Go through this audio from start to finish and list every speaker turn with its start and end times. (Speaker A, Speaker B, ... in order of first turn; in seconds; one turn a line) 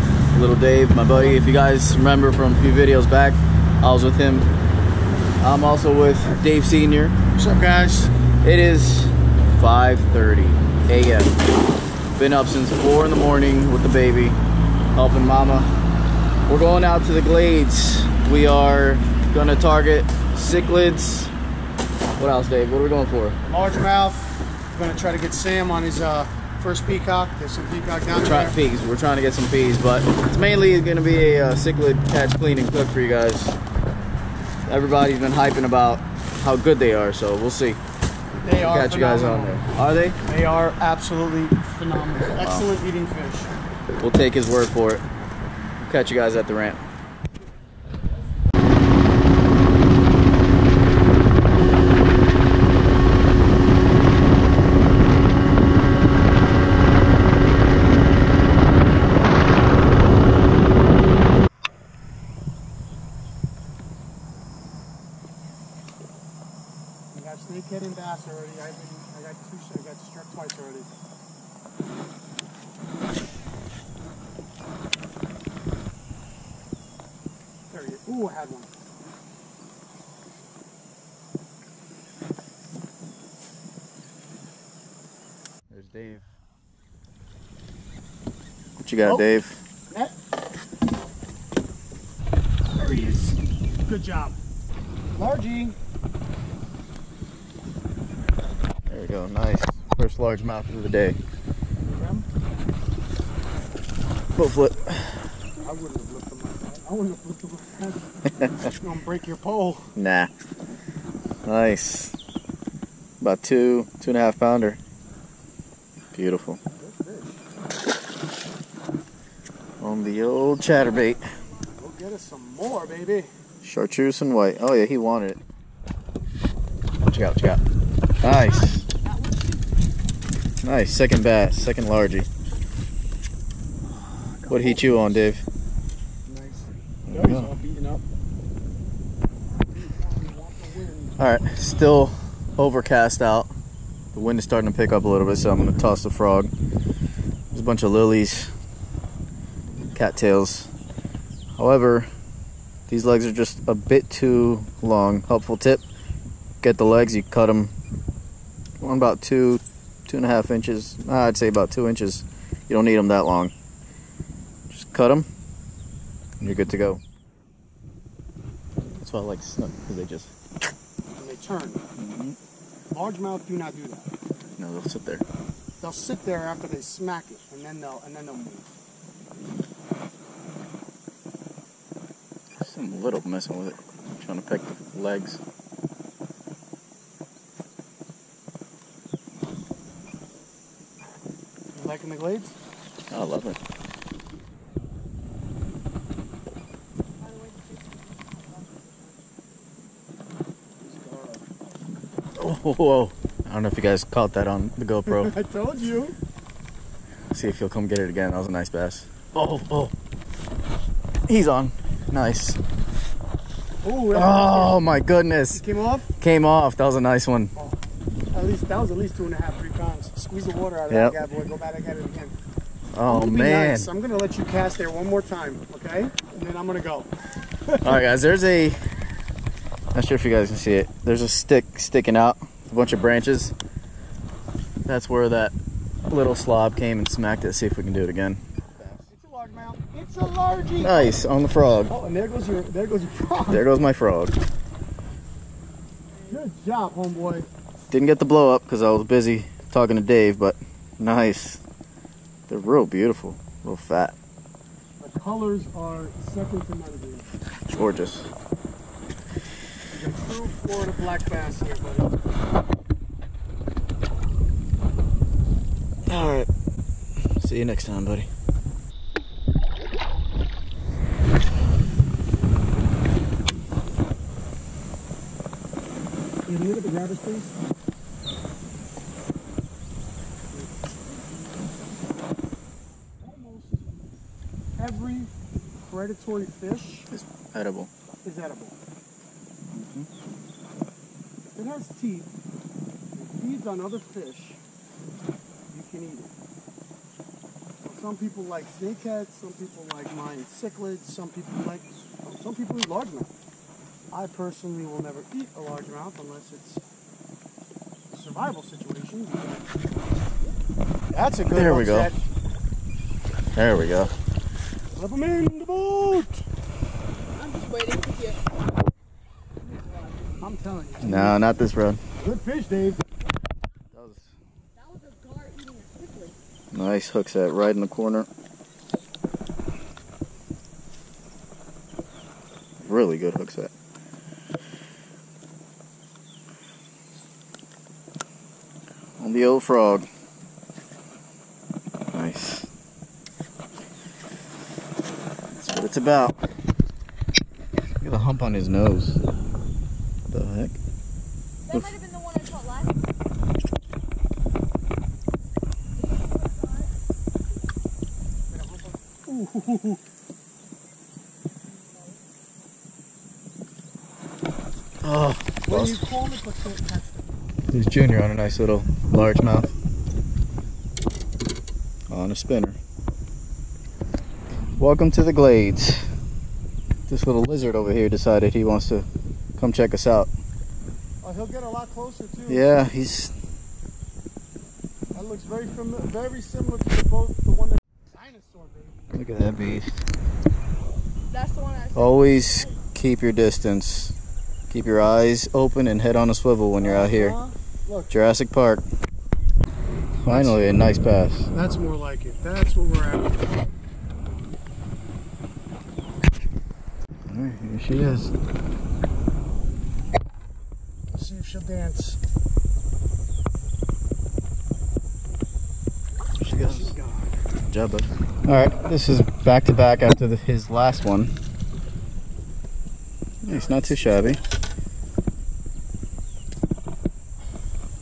Speaker A: 0.3-4.5
Speaker A: 5.4-7.2
Speaker B: 7.3-8.1
Speaker A: 8.4-11.3
Speaker A: 12.1-14.4
Speaker A: 14.9-15.7
Speaker A: 16.5-21.3
Speaker A: 22.2-23.4
Speaker B: 23.4-28.6
Speaker A: 28.2-33.6
Speaker A: 34.6-37.8
Speaker B: 38.4-39.6
Speaker A: 38.6-40.2
Speaker B: 40.2-43.5
Speaker A: 42.4-42.7
Speaker A: 44.0-45.0
Speaker A: 45.8-46.8
Speaker B: 67.1-70.9
Speaker B: 77.7-78.7
Speaker A: 85.7-86.2
Speaker A: 88.8-89.6
Speaker B: 89.9-90.1
Speaker B: 92.7-94.4
Speaker B: 95.1-95.8
Speaker A: 98.9-101.2
Speaker B: 101.8-102.3
Speaker A: 104.3-105.3
Speaker B: 105.6-109.9
Speaker A: 108.4-108.7
Speaker A: 110.0-110.3
Speaker A: 111.4-112.2
Speaker A: 113.2-114.8
Speaker A: 116.1-116.6
Speaker B: 116.7-117.4
Speaker A: 119.8-121.2
Speaker B: 121.8-123.3
Speaker A: 123.6-125.4
Speaker A: 127.0-127.6
Speaker A: 128.2-128.9
Speaker B: 129.0-129.6
Speaker A: 130.6-132.3
Speaker B: 134.0-135.0
Speaker A: 134.5-135.4
Speaker B: 136.2-138.0
Speaker A: 137.1-137.5
Speaker B: 139.7-141.2
Speaker A: 141.2-143.5
Speaker A: 144.1-146.5
Speaker A: 147.5-148.5
Speaker A: 149.9-150.7
Speaker A: 151.6-152.1
Speaker A: 152.9-155.8
Speaker A: 156.6-157.7
Speaker A: 158.8-163.5
Speaker A: 164.7-165.3
Speaker A: 166.4-167.0
Speaker A: 169.0-170.3
Speaker B: 171.1-171.8
Speaker A: 172.0-172.4
Speaker B: 172.9-174.1
Speaker A: 174.6-175.2
Speaker B: 175.8-178.7
Speaker A: 182.6-185.4
Speaker B: 191.7-192.5
Speaker A: 193.1-193.6
Speaker C: 197.2-199.2
Speaker B: 200.8-201.4
Speaker A: 202.4-205.3
Speaker B: 205.1-206.2
Speaker A: 207.3-209.9
Speaker A: 211.3-212.6
Speaker B: 213.8-214.8
Speaker A: 214.1-215.6
Speaker B: 215.5-216.1
Speaker A: 216.2-217.5
Speaker B: 217.5-217.8
Speaker B: 218.3-222.3
Speaker A: 220.9-221.2
Speaker A: 222.9-223.9
Speaker B: 223.1-227.1
Speaker B: 227.7-228.0
Speaker A: 227.8-228.8
Speaker A: 229.9-233.5
Speaker A: 234.8-235.5
Speaker A: 236.1-239.0
Speaker B: 239.1-241.2
Speaker A: 240.8-241.9
Speaker B: 241.9-243.7
Speaker A: 243.5-244.3
Speaker B: 246.3-247.5
Speaker A: 247.9-251.6
Speaker A: 252.5-254.2
Speaker B: 255.0-257.4
Speaker A: 257.7-258.3
Speaker B: 259.9-262.1
Speaker A: 266.1-266.5
Speaker A: 267.4-268.3
Speaker B: 276.5-277.6
Speaker B: 280.5-280.9
Speaker B: 283.2-283.8
Speaker B: 284.8-287.1
Speaker A: 287.1-287.9
Speaker B: 288.2-288.8
Speaker A: 289.7-290.1
Speaker B: 291.5-292.3
Speaker B: 293.1-294.6
Speaker B: 295.7-296.3
Speaker B: 297.8-303.3
Speaker B: 304.1-306.8
Speaker B: 308.1-309.7
Speaker B: 311.1-312.2
Speaker A: 311.5-312.1
Speaker A: 313.5-314.1
Speaker B: 314.9-316.4
Speaker C: 317.3-318.4
Speaker C: 319.7-320.3
Speaker B: 320.4-321.4
Speaker A: 321.0-322.0
Speaker B: 322.2-323.0
Speaker A: 323.9-324.3
Speaker C: 324.8-326.4
Speaker A: 326.7-328.3
Speaker A: 332.8-333.7
Speaker A: 339.2-340.1
Speaker A: 342.1-342.7
Speaker A: 345.5-346.3
Speaker A: 348.0-349.2
Speaker A: 350.3-350.8
Speaker C: 351.7-353.0
Speaker C: 356.2-356.9
Speaker B: 358.5-360.0
Speaker C: 361.7-362.2
Speaker A: 365.0-366.1
Speaker B: 365.6-367.4
Speaker A: 367.7-369.7
Speaker A: 372.1-372.8
Speaker A: 374.8-376.1
Speaker A: 377.1-379.1
Speaker A: 379.6-380.3
Speaker B: 381.2-382.7
Speaker A: 382.5-383.3
Speaker B: 385.1-389.1
Speaker A: 389.1-390.0
Speaker C: 391.3-392.6
Speaker A: 391.9-394.1
Speaker A: 394.7-397.3
Speaker B: 396.8-398.1
Speaker A: 398.1-398.8
Speaker A: 400.2-401.5
Speaker B: 400.2-400.8
Speaker B: 401.5-403.5
Speaker A: 407.3-408.3
Speaker B: 411.1-412.2
Speaker A: 416.4-416.9
Speaker B: 416.6-417.4
Speaker A: 417.7-421.3
Speaker A: 423.4-424.4
Speaker B: 423.4-424.4